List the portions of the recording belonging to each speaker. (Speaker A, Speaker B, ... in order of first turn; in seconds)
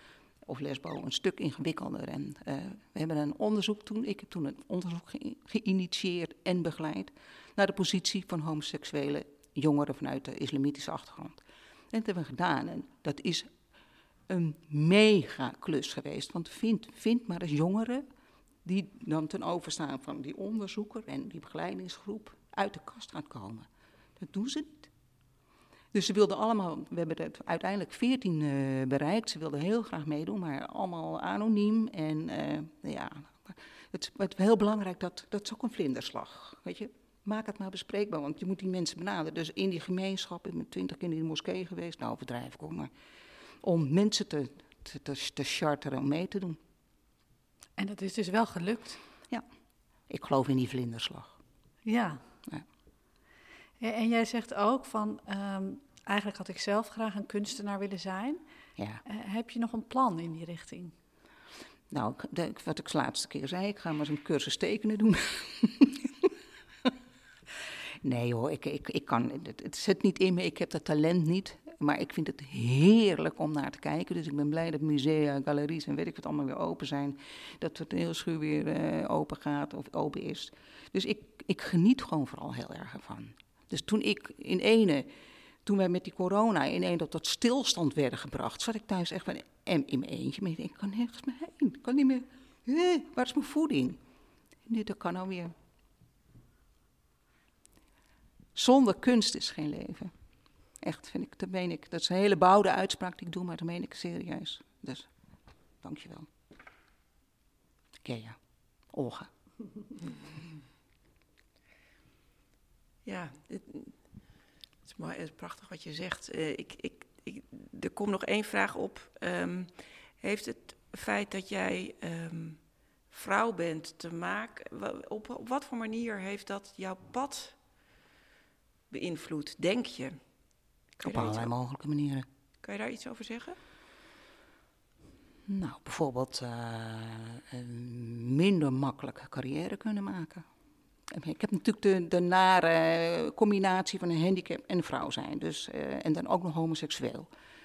Speaker A: 0.5-11.4, 11.9-13.5, 14.3-18.1, 18.6-23.7, 24.2-24.9, 25.9-42.9, 43.6-46.6, 50.1-51.4, 61.9-66.3, 68.0-85.1, 85.6-94.0, 94.7-95.5, 98.5-100.1, 100.8-105.1, 105.8-106.3, 108.0-108.4, 108.9-109.3, 131.0-132.2, 135.5-140.4, 141.1-147.3
Speaker B: 47.8-49.0, 51.9-52.1, 53.8-58.4, 59.1-60.9
Speaker C: 113.0-114.0, 114.8-127.6, 128.9-130.2, 130.9-131.5, 132.6-133.6